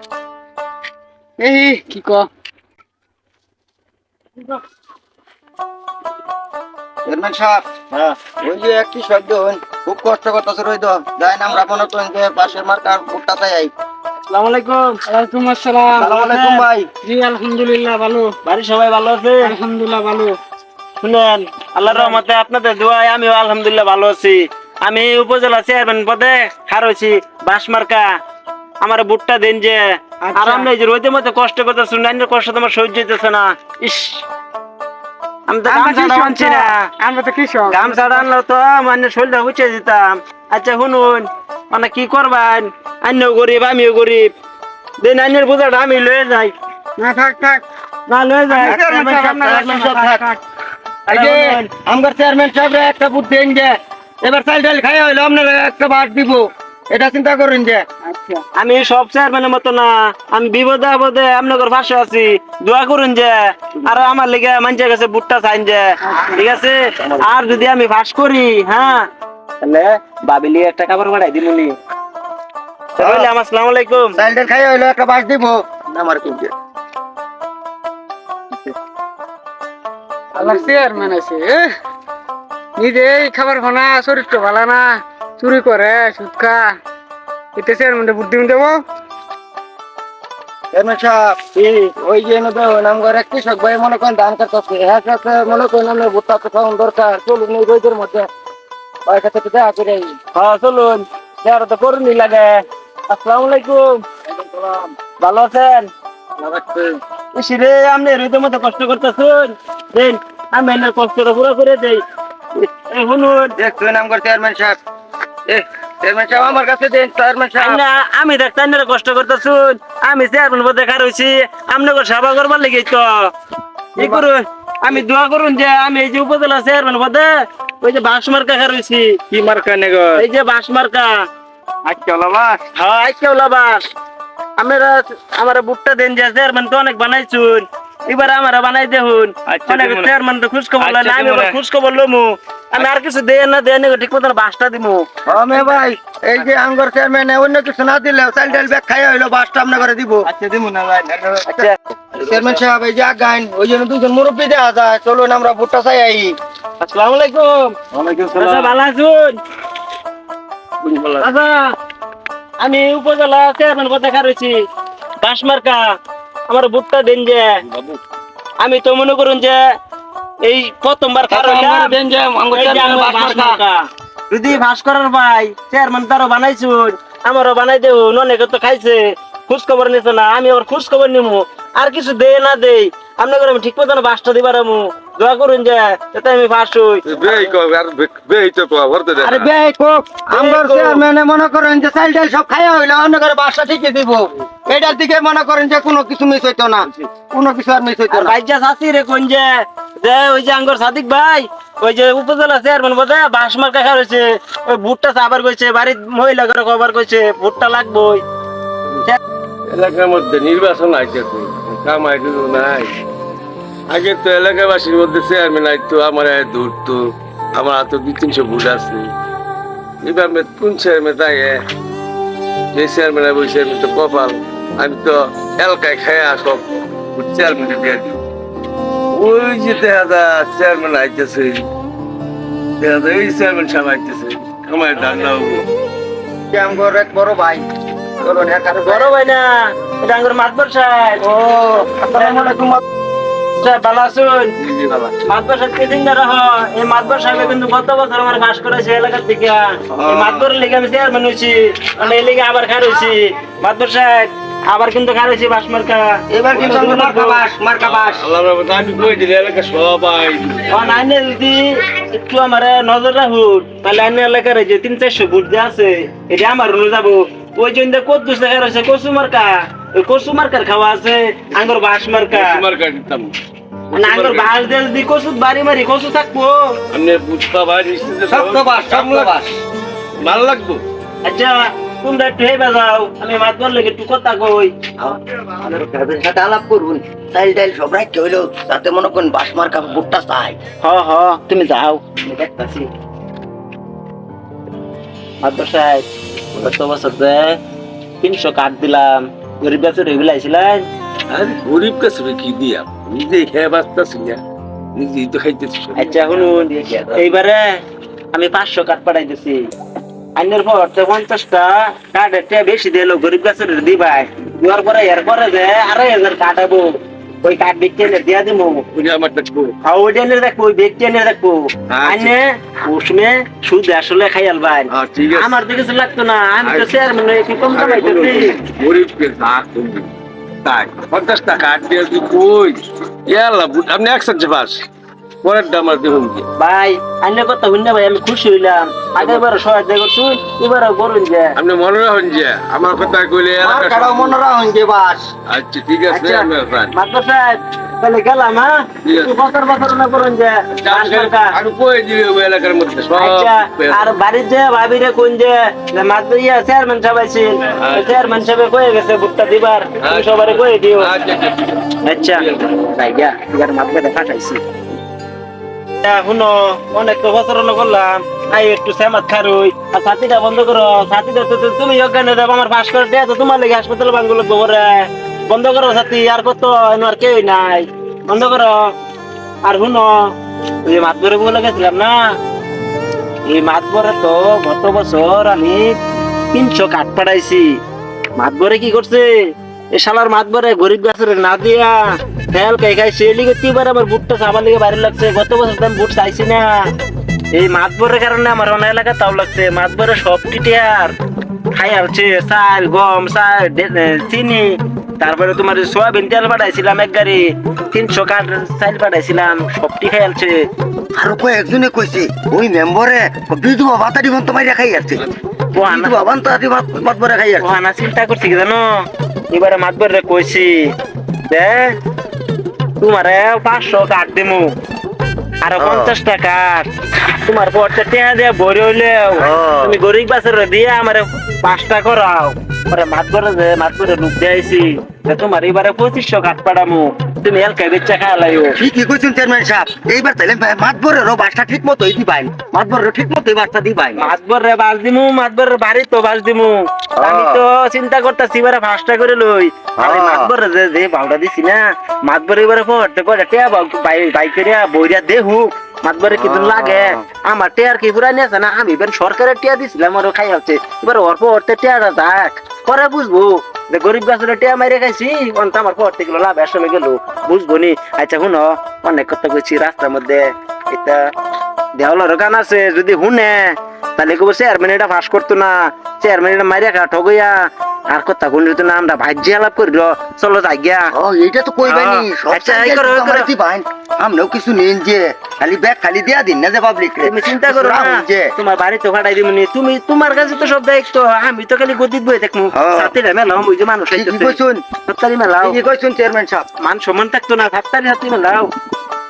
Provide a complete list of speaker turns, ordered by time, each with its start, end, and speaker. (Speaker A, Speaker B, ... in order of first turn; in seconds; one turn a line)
Speaker A: 1.4-2.3
Speaker B: 7.1-7.6
Speaker B: 8.4-13.7
Speaker C: 14.3-14.8
Speaker A: 15.1-16.4
Speaker B: 15.9-16.9
Speaker A: 17.0-18.3
Speaker C: 18.4-19.6
Speaker A: 19.4-20.4
Speaker C: 21.0-28.1
Speaker A: 21.9-22.2
Speaker C: 28.8-34.2
Speaker A: 30.2-30.7
Speaker C: 35.5-36.9
Speaker A: 35.7-38.2
Speaker C: 37.7-44.3
Speaker C: 45.0-46.5
Speaker A: 47.0-47.6
Speaker C: 48.1-48.8
Speaker A: 48.5-50.4
Speaker B: 48.6-50.2
Speaker B: 51.1-57.8
Speaker C: 51.1-51.7
Speaker A: 58.1-58.4
Speaker C: 58.6-69.1
Speaker B: 67.0-67.6
Speaker C: 69.6-71.8
Speaker B: 73.0-73.3
Speaker C: 73.0-74.2
Speaker B: 74.1-76.5
Speaker A: 80.3-81.7
Speaker A: 82.8-86.7
Speaker A: 87.5-88.8
Speaker B: 90.7-91.4
Speaker C: 91.6-91.9
Speaker B: 92.0-98.3
Speaker B: 99.1-100.2
Speaker C: 100.3-104.0
Speaker B: 104.4-104.9
Speaker C: 105.2-105.9
Speaker B: 106.4-107.0
Speaker C: 107.3-112.0
Speaker C: 112.5-113.6
Speaker B: 113.6-114.8
Speaker B: 115.5-117.8
Speaker C: 117.6-123.3
Speaker C: 124.0-127.3
Speaker C: 127.8-129.2
Speaker D: 129.3-130.2
Speaker C: 130.2-131.2
Speaker D: 131.8-132.6
Speaker C: 132.7-133.9
Speaker C: 134.6-145.1
Speaker D: 139.5-140.1
Speaker D: 140.8-141.6
Speaker B: 145.3-156.3
Speaker D: 152.3-152.6
Speaker C: 156.8-157.8
Speaker D: 157.9-158.7
Speaker C: 158.3-159.4
Speaker D: 160.8-161.3
Speaker C: 161.2-161.7
Speaker C: 162.6-164.6
Speaker C: 165.2-165.8
Speaker C: 166.5-167.6
Speaker D: 167.7-168.0
Speaker C: 168.6-169.6
Speaker C: 170.4-172.0
Speaker B: 171.3-173.6
Speaker C: 172.5-187.0
Speaker D: 187.1-189.5
Speaker B: 189.2-198.4
Speaker C: 190.3-191.0
Speaker C: 198.1-208.2
Speaker D: 209.7-212.9
Speaker D: 213.9-217.0
Speaker D: 217.5-219.1
Speaker D: 220.0-221.6
Speaker D: 222.7-228.2
Speaker D: 229.1-231.7
Speaker D: 232.8-235.7
Speaker B: 236.5-237.7
Speaker B: 238.2-239.1
Speaker C: 238.9-241.2
Speaker B: 241.2-242.8
Speaker C: 243.6-244.5
Speaker D: 244.6-245.2
Speaker C: 245.2-256.2
Speaker B: 249.9-250.4
Speaker B: 256.3-258.3
Speaker D: 256.5-261.0
Speaker C: 260.7-272.6
Speaker D: 272.3-273.4
Speaker D: 273.9-274.6
Speaker C: 273.9-276.8
Speaker D: 276.9-279.4
Speaker B: 278.3-279.5
Speaker D: 280.2-280.8
Speaker C: 281.2-284.7
Speaker B: 285.0-290.6
Speaker C: 290.8-292.9
Speaker C: 295.4-297.6
Speaker C: 298.2-300.9
Speaker D: 301.3-304.4
Speaker D: 304.9-307.2
Speaker C: 306.0-307.6
Speaker C: 308.3-309.7
Speaker C: 310.4-318.9
Speaker D: 318.9-319.7
Speaker C: 319.8-328.6
Speaker D: 321.9-322.3
Speaker D: 324.9-325.6
Speaker D: 326.6-326.9
Speaker D: 327.7-330.1
Speaker D: 330.6-334.9
Speaker D: 335.4-336.5
Speaker C: 336.6-341.6
Speaker D: 339.2-339.5
Speaker D: 341.6-344.4
Speaker B: 343.6-345.3
Speaker D: 345.5-346.9
Speaker C: 346.1-351.6
Speaker D: 349.0-349.4
Speaker D: 350.8-354.1
Speaker C: 353.1-361.1
Speaker D: 357.8-358.4
Speaker D: 360.0-362.8
Speaker C: 362.0-364.6
Speaker C: 366.0-378.8
Speaker C: 379.6-380.3
Speaker C: 380.9-382.2
Speaker C: 383.5-386.0
Speaker C: 386.5-387.8
Speaker C: 388.4-396.8
Speaker C: 397.5-401.2
Speaker C: 401.7-410.7
Speaker B: 411.1-415.2
Speaker C: 415.7-416.2
Speaker B: 415.8-417.7
Speaker C: 417.6-420.9
Speaker C: 421.5-422.0
Speaker C: 423.0-424.7
Speaker C: 425.6-438.8
Speaker B: 425.8-426.1
Speaker B: 429.4-430.0
Speaker B: 438.8-444.3
Speaker C: 444.2-471.3
Speaker B: 447.2-447.6
Speaker B: 450.0-450.5
Speaker B: 456.3-457.2
Speaker C: 472.0-481.1
Speaker B: 481.1-488.5
Speaker C: 481.9-483.5
Speaker C: 487.2-495.8
Speaker B: 492.7-493.1
Speaker B: 494.1-494.9
Speaker B: 495.6-496.7
Speaker C: 496.8-498.7